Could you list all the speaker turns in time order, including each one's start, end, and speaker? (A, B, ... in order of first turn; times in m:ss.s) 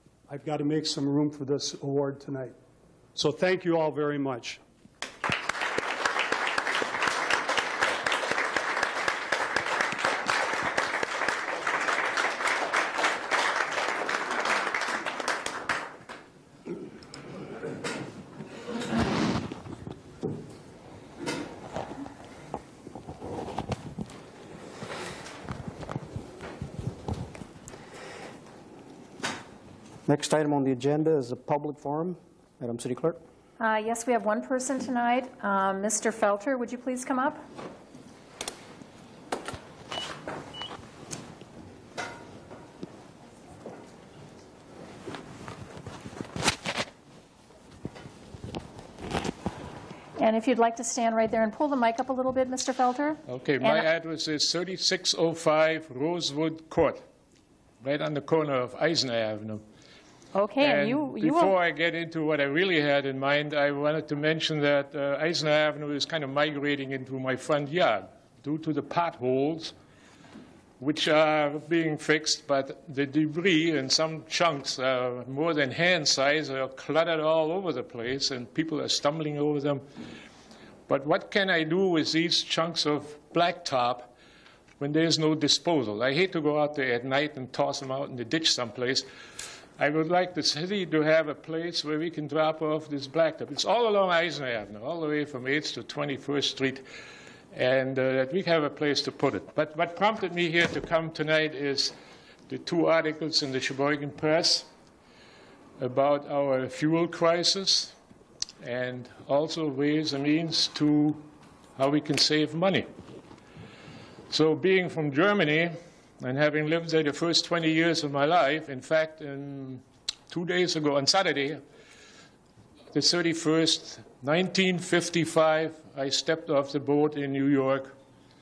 0:00.3-0:02.6 A
0:03.1-0:04.6 A
0:30.0-0:33.2 B
0:33.6-0:37.4 C
0:50.2-0:53.8 C
0:53.3-0:57.0 D
0:57.8-0:59.6 D
1:00.3-1:01.5 C
1:00.6-1:09.7 D
1:10.8-1:19.8 D
1:20.9-1:24.1 D
1:24.8-1:29.1 D
1:29.8-1:36.8 D
1:37.5-1:41.9 D
1:42.5-1:44.7 D
1:45.8-1:47.9 D
1:48.6-1:51.2 D
1:51.8-1:52.9 D
1:54.3-2:01.6 D
2:02.9-2:07.9 D